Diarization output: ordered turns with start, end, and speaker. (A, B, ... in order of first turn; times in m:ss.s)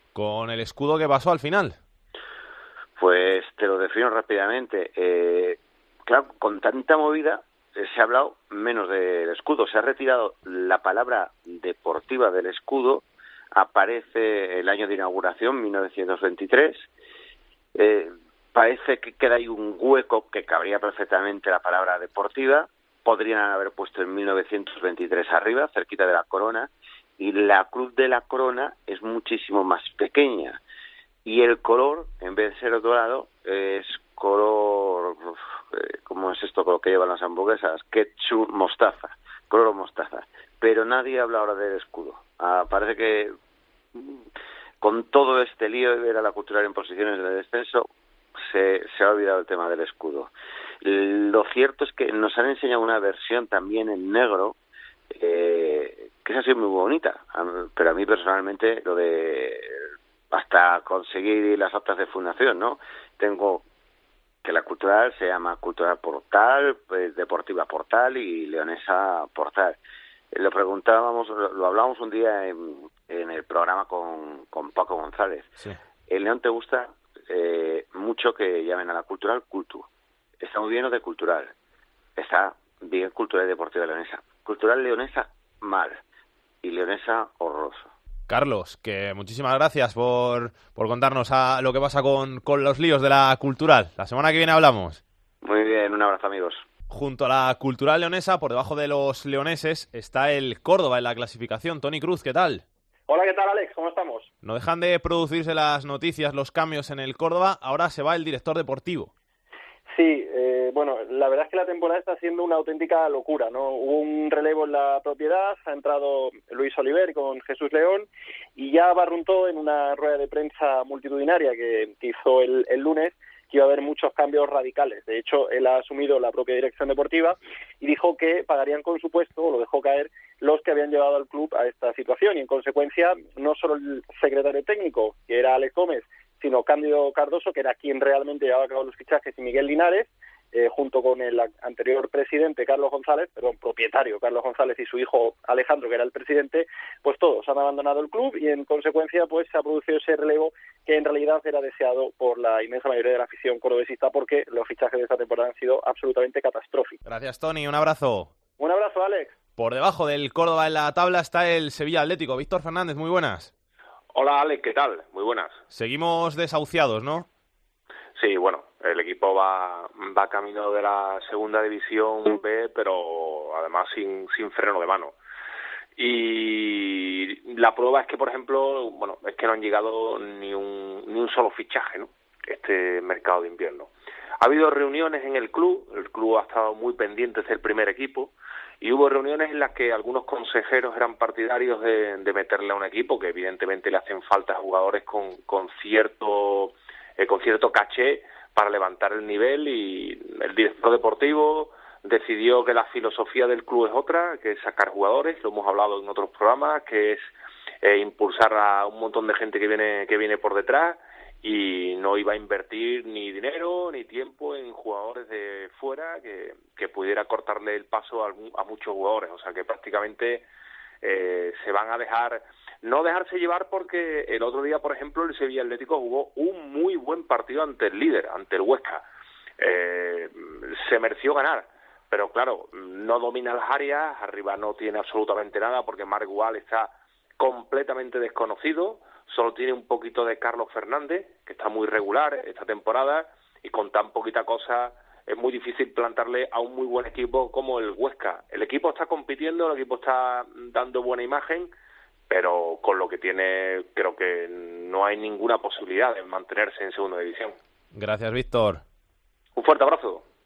0:00.2-0:01.8 A
0:03.0-0:13.0 B
0:13.6-0:16.9 B
0:17.8-0:30.6 B
0:31.2-0:43.3 B
0:44.8-0:47.9 B
0:48.4-0:50.3 B
0:50.8-0:54.6 B
0:55.2-0:59.7 B
1:00.3-1:03.6 B
1:04.4-1:09.8 B
1:10.3-1:15.5 B
1:16.1-1:19.9 B
1:20.4-1:21.5 B
1:22.2-1:26.0 B
1:26.6-1:27.9 B
1:28.3-1:35.0 A
1:35.4-1:36.6 B
1:36.9-1:42.6 A
1:43.1-1:44.2 C
1:44.4-1:49.1 A
1:50.0-1:58.1 C
1:58.6-2:36.9 C
2:37.1-2:38.3 A
2:38.6-2:39.3 C
2:39.6-2:43.5 A
2:44.1-2:45.6 D
2:45.7-2:47.3 A
2:48.2-2:55.2 D
2:56.0-3:03.9 D
3:04.4-3:27.3 D
3:27.8-3:40.4 D
3:41.0-3:49.0 D
3:49.6-4:11.7 D
4:12.3-4:17.6 D
4:17.9-4:18.8 A
4:19.6-4:20.2 D